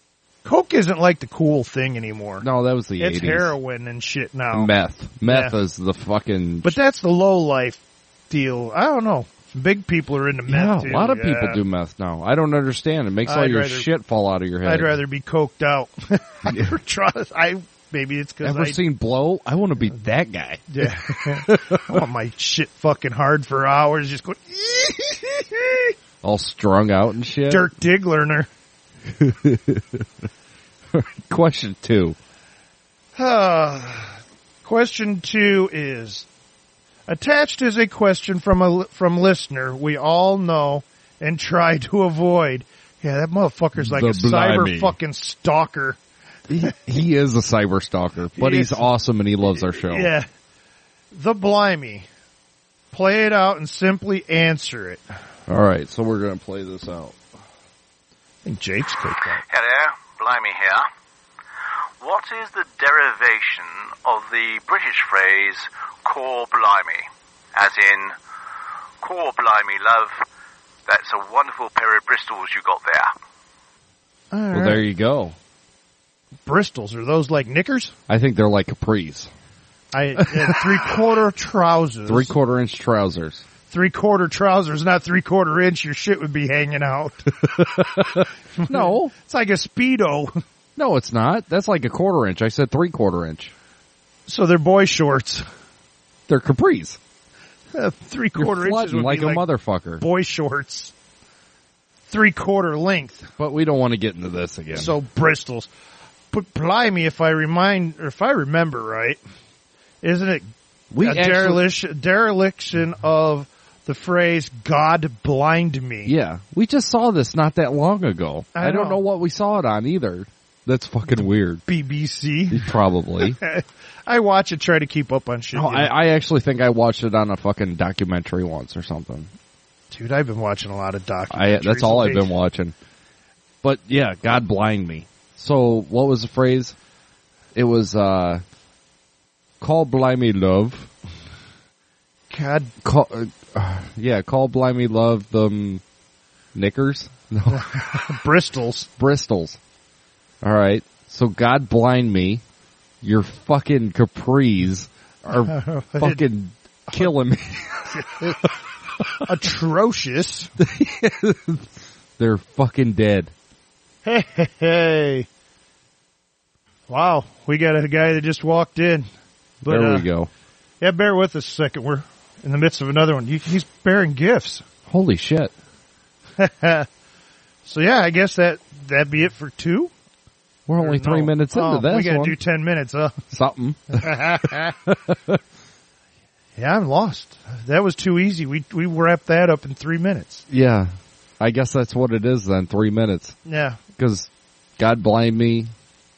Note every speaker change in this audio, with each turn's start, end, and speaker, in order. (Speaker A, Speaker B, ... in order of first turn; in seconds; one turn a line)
Speaker A: 0.4-5.6
Speaker B: 2.4-3.5
Speaker B: 4.5-6.8
Speaker A: 6.6-11.6
Speaker B: 10.5-15.0
Speaker A: 13.2-13.9
Speaker A: 14.6-18.8
Speaker B: 16.5-16.7
Speaker B: 18.4-22.0
Speaker A: 20.7-25.9
Speaker B: 26.2-27.7
Speaker A: 27.5-28.5
Speaker B: 29.2-30.0
Speaker B: 30.9-32.1
Speaker A: 33.1-36.2
Speaker A: 37.1-46.0
Speaker B: 43.8-45.0
Speaker B: 46.5-50.1
Speaker A: 48.4-48.9
Speaker A: 49.7-50.3
Speaker A: 51.1-52.0
Speaker A: 52.9-55.0
Speaker B: 55.5-57.2
Speaker A: 58.4-59.4
Speaker C: 59.5-60.9
Speaker C: 62.0-68.2
Speaker C: 69.0-70.2
Speaker C: 70.9-73.1
Speaker A: 74.3-74.9
Speaker B: 74.5-75.3
Speaker A: 76.5-77.9
Speaker B: 78.1-79.3
Speaker A: 79.9-82.3
Speaker B: 80.3-80.9
Speaker B: 82.1-83.4
Speaker A: 83.7-90.4
Speaker B: 88.7-89.1
Speaker B: 90.8-93.5
Speaker A: 94.3-95.4
Speaker B: 96.3-97.0
Speaker A: 97.7-99.5
Speaker B: 98.4-100.0
Speaker A: 100.0-100.9
Speaker A: 102.1-103.3
Speaker B: 103.4-104.9
Speaker A: 104.7-105.7
Speaker A: 106.3-109.2
Speaker A: 110.0-116.1
Speaker B: 110.9-111.7
Speaker B: 116.0-121.6
Speaker A: 118.5-119.0
Speaker A: 121.7-126.0
Speaker B: 122.5-123.4
Speaker B: 125.5-129.3
Speaker A: 129.9-132.3
Speaker B: 131.3-132.7
Speaker B: 133.6-136.7
Speaker B: 137.5-138.4
Speaker B: 139.6-140.9
Speaker A: 142.3-142.7
Speaker B: 142.8-145.8
Speaker B: 146.5-147.7
Speaker A: 147.5-148.9
Speaker B: 149.0-149.6
Speaker B: 150.4-152.4
Speaker B: 153.0-158.4
Speaker A: 155.3-156.2
Speaker A: 158.0-158.3
Speaker A: 159.2-160.5
Speaker B: 160.6-161.7
Speaker B: 162.2-163.3
Speaker A: 164.0-165.3
Speaker A: 166.9-169.1
Speaker A: 169.6-170.1
Speaker B: 169.7-170.3
Speaker A: 170.8-174.6
Speaker B: 174.9-175.5
Speaker A: 176.4-176.9
Speaker A: 177.7-179.9
Speaker B: 180.7-182.4
Speaker A: 180.8-183.2
Speaker B: 183.3-184.2
Speaker A: 183.9-184.7
Speaker B: 184.9-185.4
Speaker A: 186.6-190.4
Speaker B: 190.5-193.4
Speaker A: 193.4-193.8
Speaker B: 194.0-195.7